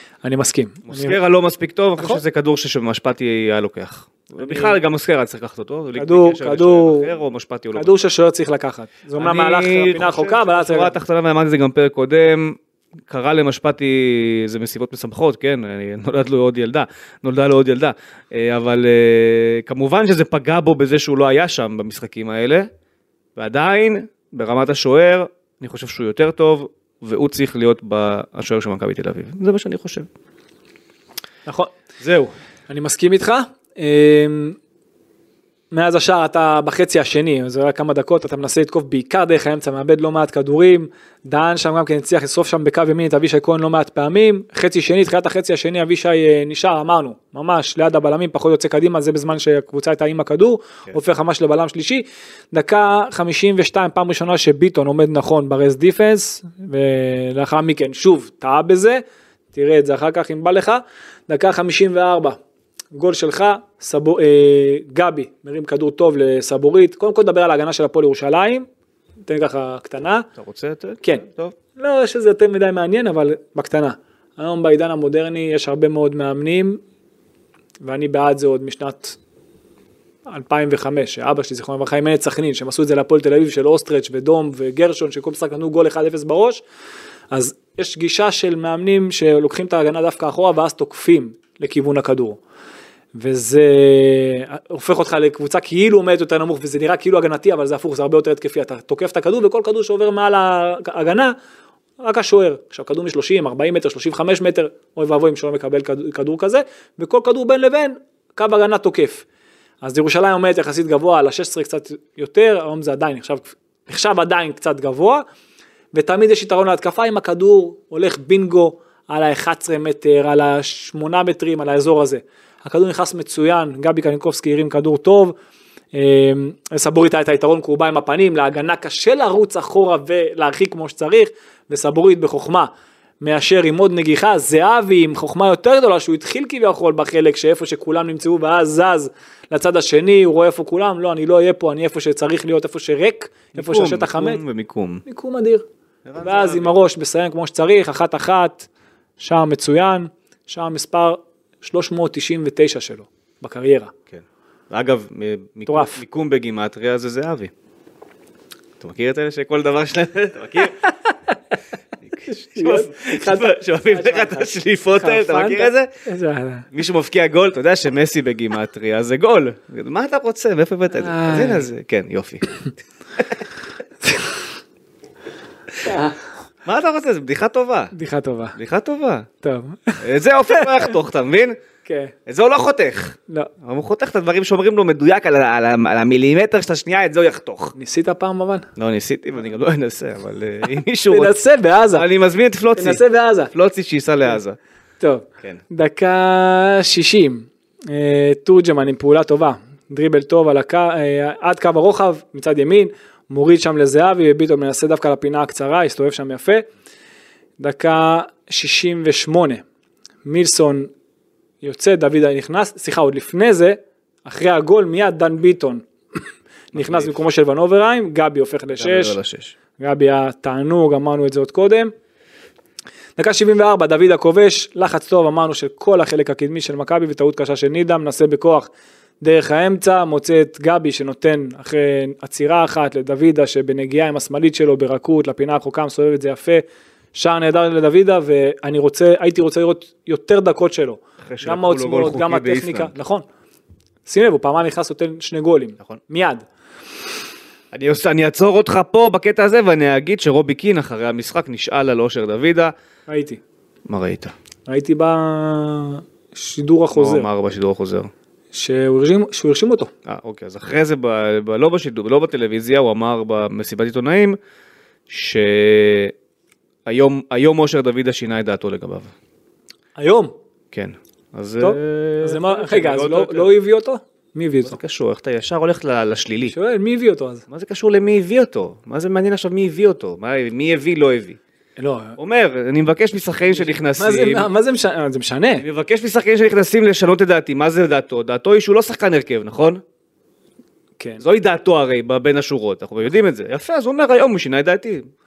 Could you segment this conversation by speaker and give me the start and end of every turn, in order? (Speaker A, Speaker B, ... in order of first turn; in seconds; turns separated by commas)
Speaker A: 0.2-1.2, Speaker B: 0.9-8.0, Speaker A: 4.4-4.8, Speaker A: 6.0-7.1, Speaker A: 7.7-10.9, Speaker B: 9.2-22.7, Speaker B: 23.4-30.1, Speaker A: 31.5-31.7, Speaker B: 32.0-32.3, Speaker A: 32.7-34.6, Speaker A: 35.7-62.4, Speaker A: 62.9-68.7, Speaker A: 69.3-70.3, Speaker B: 70.4-71.5, Speaker A: 71.0-76.8, Speaker A: 77.8-79.2, Speaker A: 80.3-86.6, Speaker A: 87.3-92.4, Speaker A: 93.2-101.3, Speaker A: 102.0-109.2, Speaker A: 109.8-115.2, Speaker A: 115.9-125.3, Speaker A: 125.9-144.4, Speaker B: 143.6-145.0, Speaker A: 145.1-145.7, Speaker B: 146.1-146.7, Speaker A: 146.2-148.7, Speaker A: 149.2-153.9, Speaker B: 154.1-157.5, Speaker A: 155.7-156.0, Speaker B: 158.8-160.8, Speaker B: 162.1-165.9, Speaker A: 162.2-166.7, Speaker B: 166.7-172.5, Speaker A: 170.9-171.7, Speaker B: 173.2-173.4, Speaker A: 175.9-176.1, Speaker B: 176.7-177.9, Speaker A: 177.9-178.6, Speaker B: 178.6-179.3, Speaker A: 179.4-180.0, Speaker B: 180.0-181.6, Speaker A: 180.5-180.8, Speaker A: 181.8-182.1, Speaker B: 182.3-187.8, Speaker A: 187.8-188.7, Speaker B: 188.8-191.3, Speaker A: 191.1-192.1, Speaker B: 191.9-194.6, Speaker A: 192.8-193.5, Speaker A: 195.0-206.7, Speaker A: 207.6-209.6, Speaker A: 210.2-210.9, Speaker A: 211.6-215.8, Speaker A: 216.7-219.2, Speaker B: 216.7-217.2, Speaker B: 218.8-219.6, Speaker A: 219.8-221.9, Speaker A: 223.2-228.7, Speaker A: 229.2-243.2, Speaker B: 241.2-242.9, Speaker A: 244.1-246.4, Speaker B: 247.7-252.7, Speaker A: 253.1-253.4, Speaker B: 253.9-254.3, Speaker A: 254.7-257.3, Speaker B: 256.9-258.1, Speaker A: 258.5-259.9, Speaker B: 260.1-264.4, Speaker B: 265.1-266.1, Speaker B: 266.9-269.1, Speaker A: 270.0-270.4, Speaker B: 270.7-273.6, Speaker A: 271.6-274.8, Speaker B: 274.6-276.6, Speaker A: 276.5-277.4, Speaker B: 277.5-281.4, Speaker A: 281.8-282.2, Speaker B: 282.2-284.5, Speaker A: 283.5-285.6, Speaker B: 285.6-289.8, Speaker B: 291.2-295.1